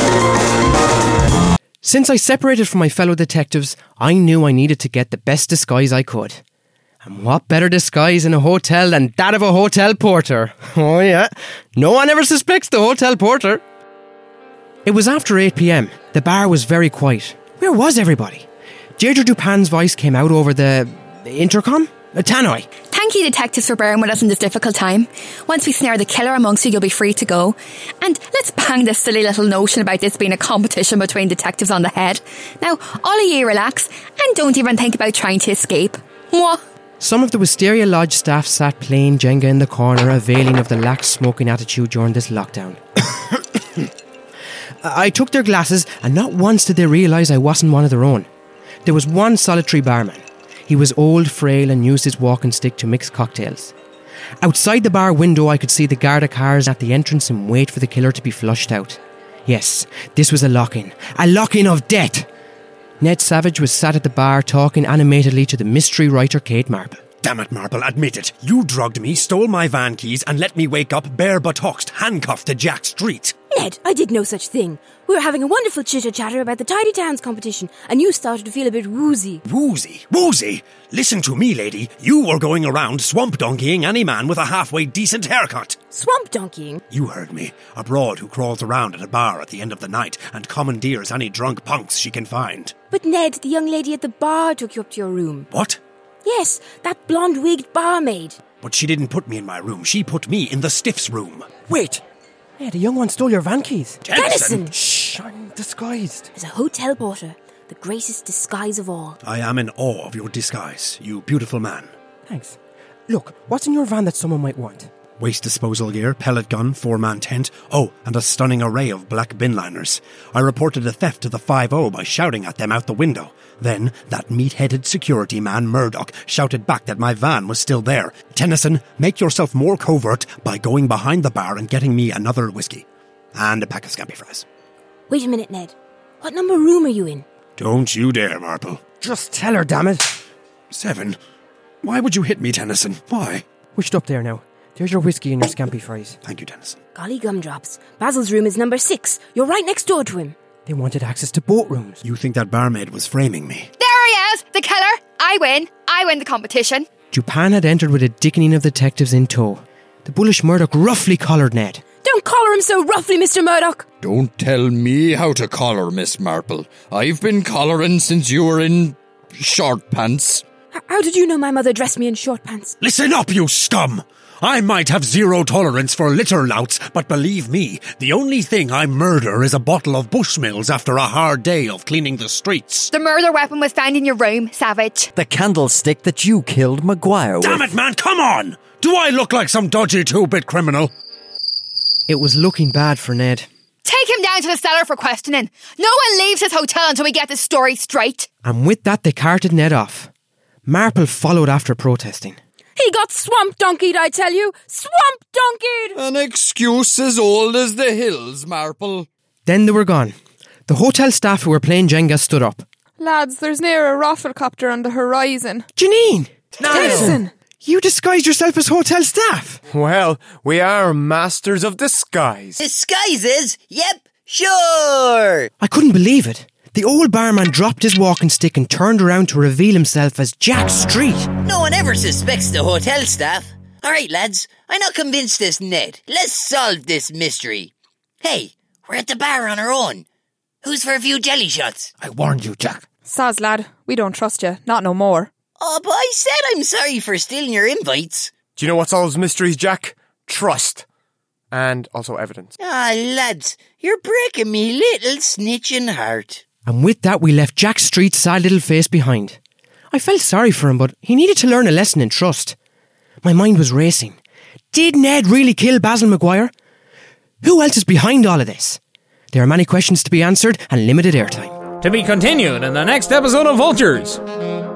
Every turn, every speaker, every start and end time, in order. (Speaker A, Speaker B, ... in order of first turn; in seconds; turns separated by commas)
Speaker A: 1.8-6.4, Speaker A: 7.0-13.6, Speaker A: 14.8-18.4, Speaker A: 19.0-22.7, Speaker B: 22.9-36.6, Speaker A: 37.0-42.8, Speaker A: 44.8-48.3, Speaker A: 48.8-53.7, Speaker A: 54.4-62.3, Speaker A: 63.0-67.0, Speaker C: 67.2-73.3, Speaker D: 73.5-79.4, Speaker C: 79.5-85.8, Speaker D: 85.9-86.8, Speaker C: 86.9-92.7, Speaker D: 92.9-95.5, Speaker C: 95.5-95.8, Speaker D: 96.2-98.4, Speaker C: 98.6-101.5, Speaker A: 101.7-102.0, Speaker A: 102.6-104.0, Speaker C: 104.0-104.6, Speaker D: 104.1-104.7, Speaker A: 104.6-106.3, Speaker D: 106.3-109.2, Speaker C: 109.2-111.9, Speaker A: 112.3-112.6, Speaker A: 113.1-114.9, Speaker C: 115.2-134.4, Speaker D: 135.1-137.2, Speaker C: 137.6-138.8, Speaker A: 139.0-140.1, Speaker C: 140.7-141.2, Speaker C: 141.8-143.4, Speaker A: 143.7-146.2, Speaker C: 146.2-146.8, Speaker D: 146.9-150.3, Speaker A: 150.7-152.0, Speaker C: 152.0-153.7, Speaker B: 153.8-156.8, Speaker A: 157.1-161.8, Speaker D: 162.0-163.8, Speaker E: 164.0-170.4, Speaker D: 170.7-172.7, Speaker C: 172.8-182.9, Speaker B: 182.9-185.1, Speaker F: 185.1-187.7, Speaker C: 187.4-190.9, Speaker A: 192.1-193.5, Speaker B: 193.8-198.3, Speaker A: 198.4-200.1, Speaker A: 200.7-202.4, Speaker D: 202.8-205.9, Speaker E: 205.9-209.1, Speaker A: 209.4-210.1, Speaker A: 210.7-212.6, Speaker G: 213.0-215.7, Speaker A: 215.8-219.6, Speaker H: 216.6-217.2, Speaker G: 216.7-217.3, Speaker H: 219.7-222.7, Speaker I: 222.6-225.5, Speaker A: 225.6-231.3, Speaker I: 231.4-240.0, Speaker I: 240.6-241.9, Speaker C: 242.0-242.8, Speaker G: 243.1-245.3, Speaker I: 245.6-248.3, Speaker H: 248.6-250.8, Speaker H: 251.5-252.5, Speaker I: 252.6-256.4, Speaker A: 256.6-259.4, Speaker A: 259.9-262.6, Speaker A: 263.2-264.2, Speaker A: 264.7-266.5, Speaker A: 267.4-268.8, Speaker A: 269.3-271.5, Speaker J: 271.8-274.2